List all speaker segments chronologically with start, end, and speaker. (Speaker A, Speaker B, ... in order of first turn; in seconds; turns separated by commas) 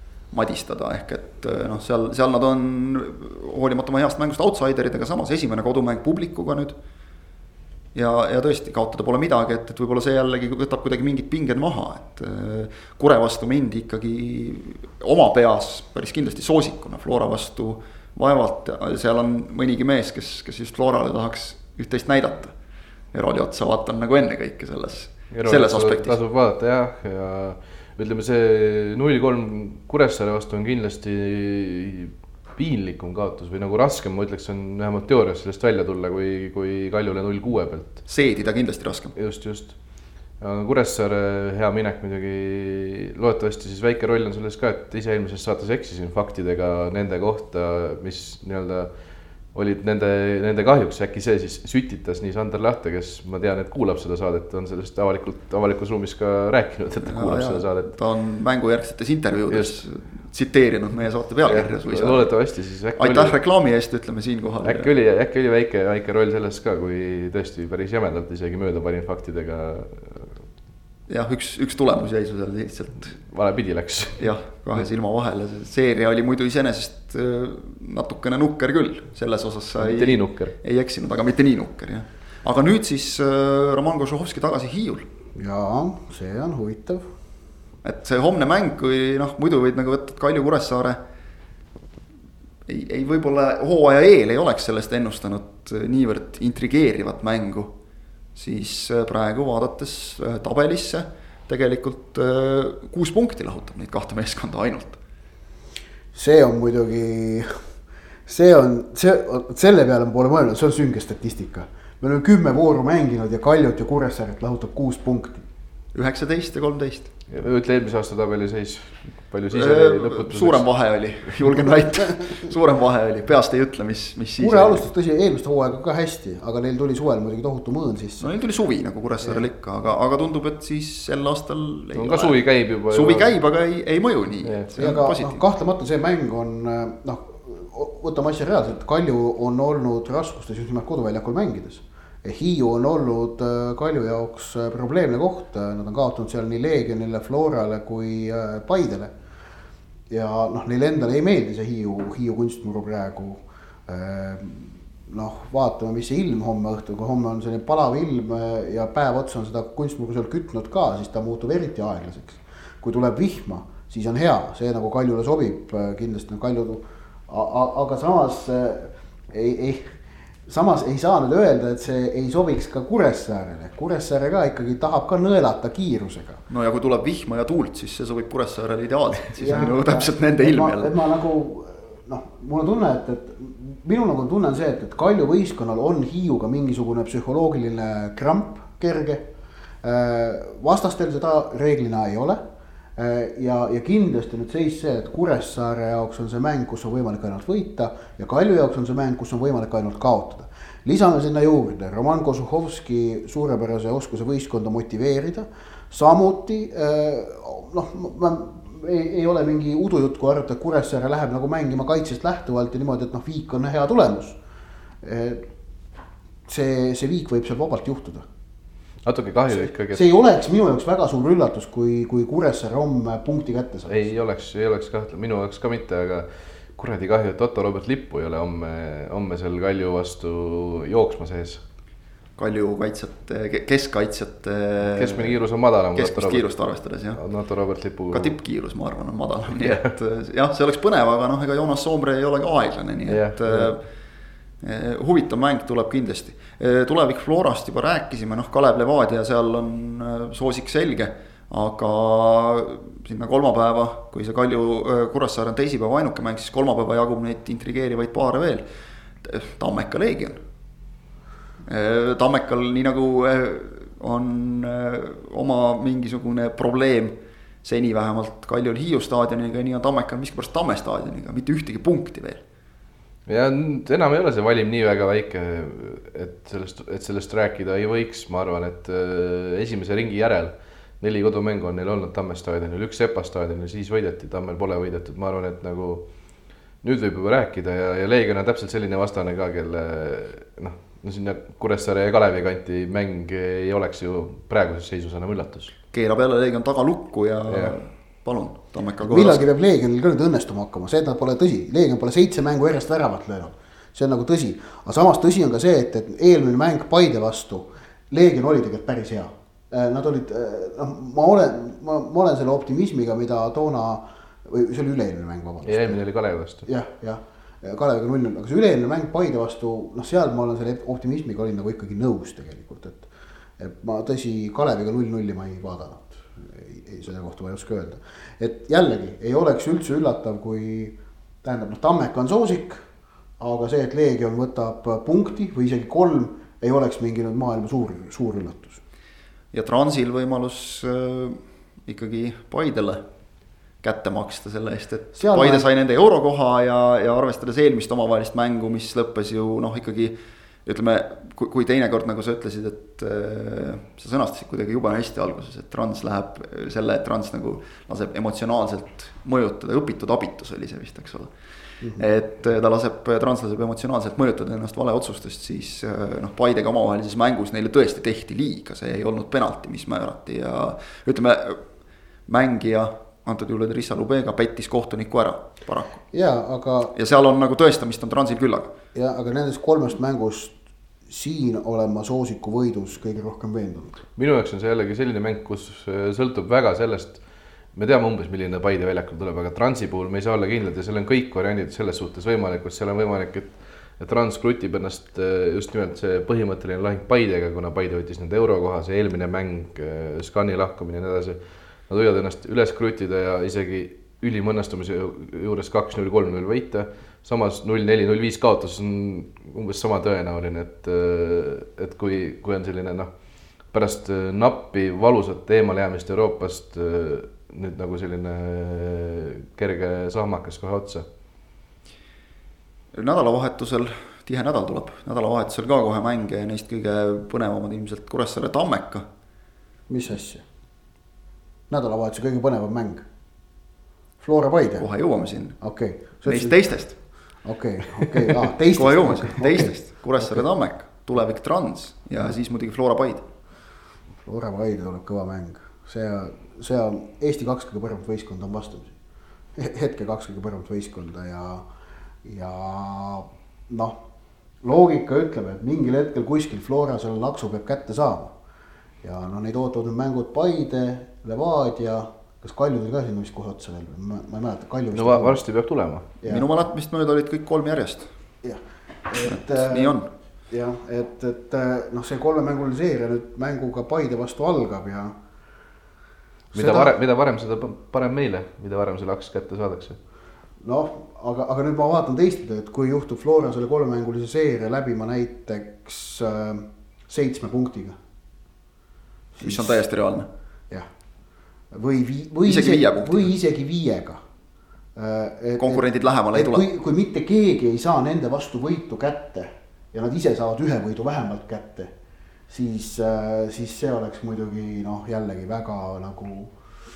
Speaker A: 0.3-6.8, Speaker A: 7.9-22.5, Speaker A: 23.1-26.2, Speaker B: 25.3-38.0, Speaker A: 38.1-39.1, Speaker B: 39.2-39.7, Speaker B: 40.4-48.9, Speaker B: 49.5-58.0, Speaker A: 57.1-62.3, Speaker B: 59.5-59.8, Speaker B: 61.4-63.4, Speaker A: 63.0-64.9, Speaker B: 64.6-70.3, Speaker A: 71.1-73.2, Speaker B: 73.3-74.3, Speaker A: 74.2-85.1, Speaker B: 79.8-80.5, Speaker C: 85.3-87.0, Speaker A: 87.8-91.0, Speaker A: 92.7-97.7, Speaker A: 98.3-105.0, Speaker C: 106.1-107.5, Speaker C: 108.3-115.5, Speaker A: 115.9-117.1, Speaker B: 117.3-120.7, Speaker A: 119.5-124.8, Speaker C: 124.4-128.3, Speaker A: 128.2-135.4, Speaker B: 131.9-133.4, Speaker B: 134.4-134.7, Speaker C: 134.8-149.1, Speaker C: 150.1-169.9, Speaker C: 170.5-176.4, Speaker A: 176.5-180.9, Speaker C: 179.4-189.3, Speaker C: 189.8-192.4, Speaker C: 193.0-214.4, Speaker C: 215.0-215.4, Speaker C: 216.5-218.2, Speaker B: 219.1-220.1, Speaker C: 219.5-224.0, Speaker B: 223.9-231.6, Speaker A: 232.4-235.4, Speaker B: 234.9-236.4, Speaker A: 235.9-237.2, Speaker B: 237.1-238.3, Speaker A: 238.1-243.8, Speaker B: 239.6-239.9, Speaker B: 243.1-243.8, Speaker A: 244.6-258.6, Speaker A: 259.2-260.4, Speaker A: 261.7-272.4, Speaker B: 273.3-286.1, Speaker B: 286.8-295.7, Speaker A: 295.9-299.4, Speaker B: 297.5-297.8, Speaker C: 299.1-316.0, Speaker B: 315.6-316.7, Speaker C: 316.6-323.1, Speaker C: 323.6-332.8, Speaker C: 333.4-338.8, Speaker A: 339.5-343.0, Speaker A: 343.8-361.3, Speaker C: 345.1-345.7, Speaker C: 361.8-362.1, Speaker A: 362.0-371.6, Speaker A: 372.3-376.0, Speaker C: 376.1-376.9, Speaker A: 376.9-378.7, Speaker C: 378.9-380.6, Speaker C: 381.1-384.0, Speaker B: 384.2-387.2, Speaker B: 387.7-413.1, Speaker B: 413.7-421.1, Speaker A: 422.9-429.1, Speaker C: 429.9-430.4, Speaker C: 431.7-433.1, Speaker C: 434.2-434.9, Speaker A: 434.8-435.6, Speaker C: 435.6-436.6, Speaker A: 436.3-437.0, Speaker C: 437.4-440.5, Speaker A: 438.0-443.3, Speaker C: 444.2-448.9, Speaker C: 449.6-451.6, Speaker C: 452.2-454.0, Speaker C: 454.6-458.4, Speaker C: 459.0-465.4, Speaker B: 464.9-466.1, Speaker A: 466.3-468.1, Speaker C: 468.4-470.0, Speaker A: 469.2-470.1, Speaker C: 470.5-475.1, Speaker C: 476.5-476.9, Speaker B: 476.6-480.0, Speaker C: 480.6-488.0, Speaker C: 489.4-489.8, Speaker A: 489.4-490.3, Speaker C: 491.7-494.2, Speaker A: 492.4-493.3, Speaker C: 495.0-501.9, Speaker A: 495.6-496.6, Speaker C: 502.5-506.5